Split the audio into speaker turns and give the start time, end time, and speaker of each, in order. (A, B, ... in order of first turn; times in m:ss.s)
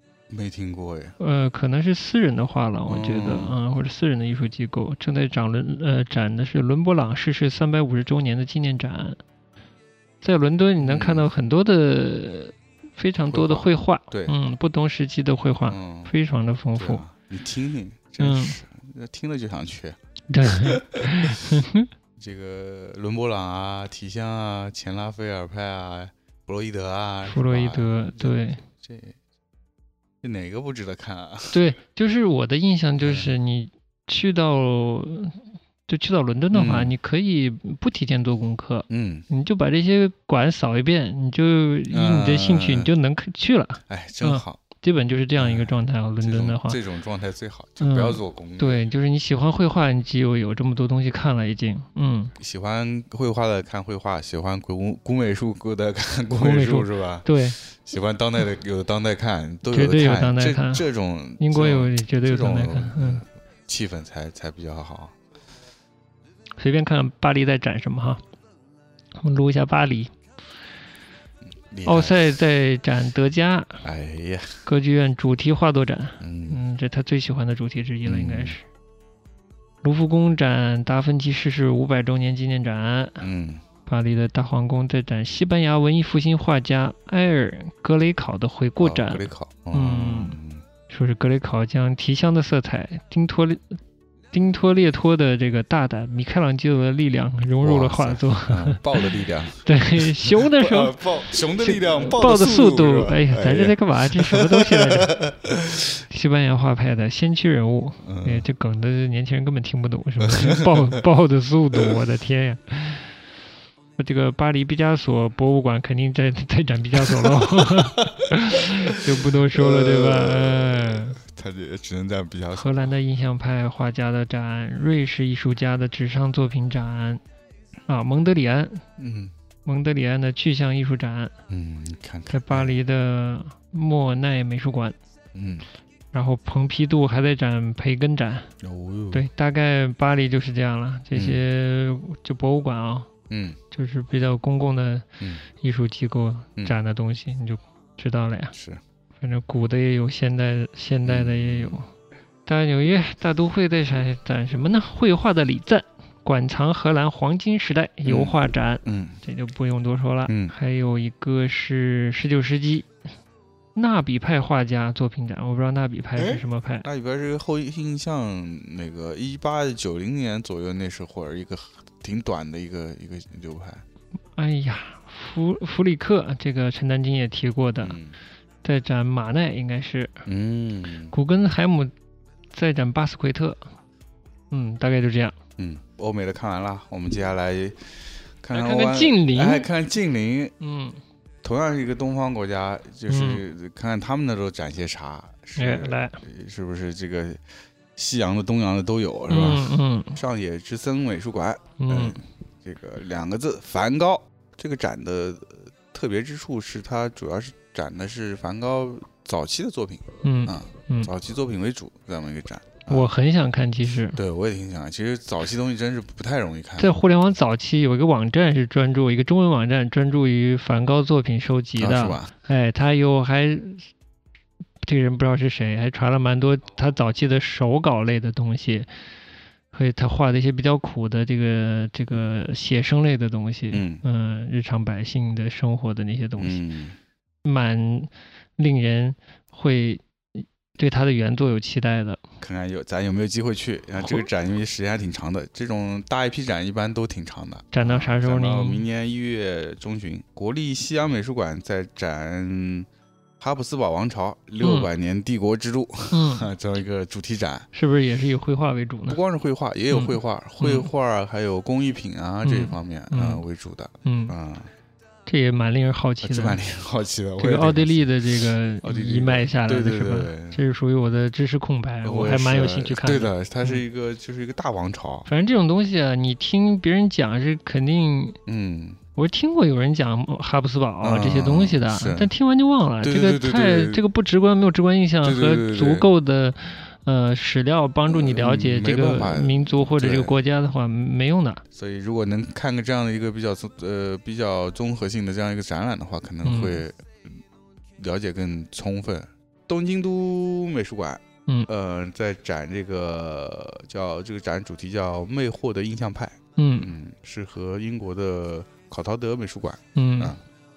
0:00.3-0:01.1 A
0:01.2-0:09.2 B
0:02.9-0:03.5 A
0:10.2-0:17.0 B
0:10.8-0:11.3 A
0:13.3-0:14.4 A
0:15.6-0:16.1 A
0:16.8-0:21.6 A
0:18.2-0:18.6 B
0:20.3-0:21.9 B
0:22.2-0:29.2 A
0:27.2-0:28.6 B
0:30.2-0:31.6 A
0:31.5-0:46.8 B
0:33.0-0:33.3 A
0:36.5-0:36.9 A
0:38.9-0:39.3 A
0:41.9-0:42.9 A
0:43.9-0:44.6 A
0:45.4-0:48.8 A
0:47.8-0:52.3 B
0:52.4-1:05.1 A
0:56.3-0:57.6 B
0:59.7-1:00.8 B
1:01.4-1:03.2 B
1:06.6-1:08.2 B
1:09.2-1:10.1 B
1:11.7-1:12.3 A
1:11.8-1:13.8 B
1:13.8-1:14.6 A
1:14.6-1:18.6 B
1:16.2-1:16.6 A
1:18.0-1:18.6 A
1:19.8-1:23.2 B
1:23.2-1:23.6 A
1:23.8-1:30.4 B
1:28.8-1:30.6 A
1:30.9-1:33.7 B
1:34.3-1:39.1 B
1:37.6-1:45.9 A
1:39.6-1:45.1 B
1:46.1-1:53.1 B
1:48.0-1:48.4 A
1:50.2-1:50.9 A
1:54.0-2:01.2 B
1:57.0-2:02.9 A
2:02.5-2:07.2 B
2:07.9-2:08.8 B
2:09.0-2:09.3 A
2:09.6-2:11.3 B
2:11.5-2:12.8 A
2:12.3-2:15.0 B
2:15.3-2:15.6 A
2:16.1-2:18.5 B
2:18.6-2:19.3 A
2:19.1-2:23.1 B
2:21.1-2:21.4 A
2:23.3-2:23.6 A
2:23.7-2:28.5 B
2:28.5-2:28.8 A
2:29.2-2:31.9 B
2:31.0-2:31.8 A
2:32.4-2:42.9 B
2:38.0-2:39.2 A
2:40.3-2:40.5 A
2:43.7-2:46.9 B
2:46.2-2:53.8 A
2:54.4-2:58.0 B
2:57.8-2:58.2 A
2:58.6-3:00.2 B
3:00.2-3:01.1 A
3:01.1-3:01.9 B
3:02.5-3:03.6 B
3:04.5-3:05.4 B
3:05.6-3:10.5 A
3:08.5-3:09.7 B
3:10.6-3:11.0 B
3:11.4-3:17.4 A
3:13.1-3:13.4 B
3:15.6-3:16.2 B
3:17.9-3:33.1 A
3:19.3-3:20.2 B
3:21.8-3:22.2 B
3:30.2-3:31.1 B
3:32.9-3:34.2 B
3:34.1-3:37.0 A
3:36.8-3:43.9 B
3:41.8-3:42.3 A
3:44.8-3:48.9 B
3:49.7-3:56.6 B
3:53.7-3:54.0 A
3:56.4-3:57.0 A
3:57.4-4:02.2 B
4:02.4-4:12.9 A
4:07.7-4:08.8 B
4:13.4-4:17.7 A
4:14.6-4:14.9 B
4:16.1-4:16.5 B
4:17.7-4:19.2 B
4:19.1-4:24.7 A
4:19.9-4:20.9 B
4:22.4-4:23.4 B
4:24.0-4:24.3 B
4:25.2-4:26.6 B
4:26.2-4:28.1 A
4:27.4-4:33.8 B
4:28.8-4:30.6 A
4:32.0-4:35.3 A
4:35.3-4:38.4 B
4:38.4-4:39.0 A
4:39.2-4:51.6 B
4:41.0-4:42.3 A
4:43.0-4:44.0 A
4:45.2-4:46.1 A
4:48.1-4:50.4 A
4:51.7-4:57.4 A
4:56.4-4:56.8 B
4:58.0-5:10.4 A
5:06.6-5:06.9 B
5:09.9-5:10.4 B